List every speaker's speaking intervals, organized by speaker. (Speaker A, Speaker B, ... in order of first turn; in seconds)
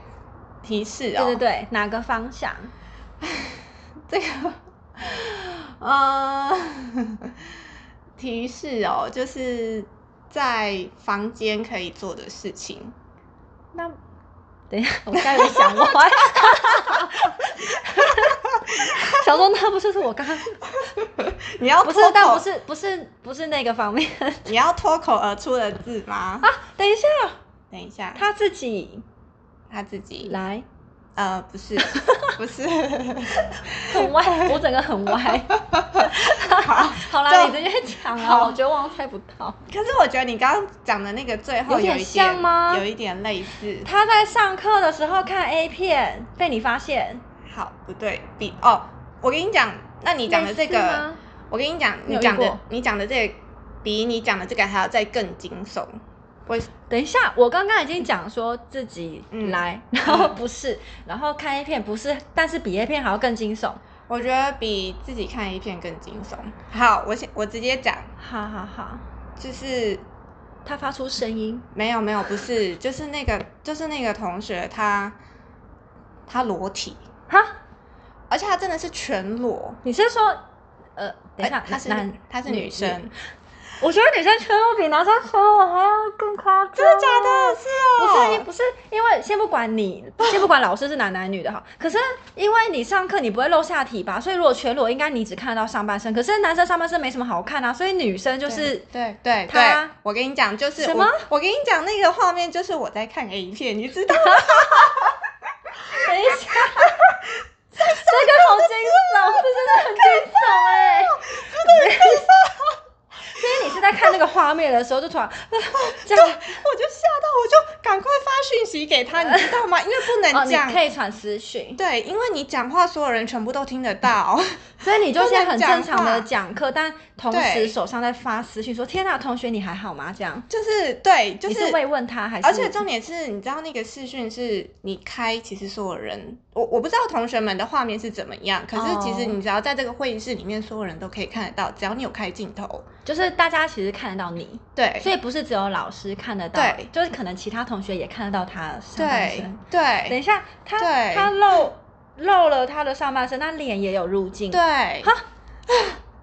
Speaker A: 0.6-1.4, 3.2-7.3, 8.2-12.9, 15.2-17.3, 17.9-19.2, 20.8-22.4, 24.4-26.5, 27.7-28.2, 29.7-30.4, 31.2-34.6, 35.1-38.6, 39.7-43.9, 47.5-56.7, 59.3-60.4, 64.1-68.1, 69.4-70.0, 71.7-75.2, 76.3-77.0, 78.3-79.8, 81.4-83.1, 86.8-88.5, 98.5-112.8, 113.4-114.1, 115.8-120.8, 121.8-126.3, 127.3-127.7, 130.5-131.8, 132.4-142.8, 144.8-145.1, 146.5-146.9, 149.0-150.2, 150.8-151.3, 154.5-155.1, 155.7-156.0
Speaker B: 1.2-2.7, 14.7-20.7, 21.8-24.5, 26.4-27.4, 28.1-29.0, 30.2-30.6, 31.8-32.4, 33.8-39.6, 41.7-42.9, 43.8-47.2, 50.3-51.2, 52.1-52.6, 56.9-63.8, 68.2-69.0, 70.6-71.7, 77.3-77.5, 79.8-80.4, 81.0-83.0, 83.8-98.8, 99.5-99.9, 100.8-101.2, 104.1-105.1, 105.9-107.1, 107.8-112.3, 113.3-116.6, 119.2-119.6, 120.3-121.8, 124.8-130.5, 131.5-132.8, 138.7-139.4, 143.1-155.2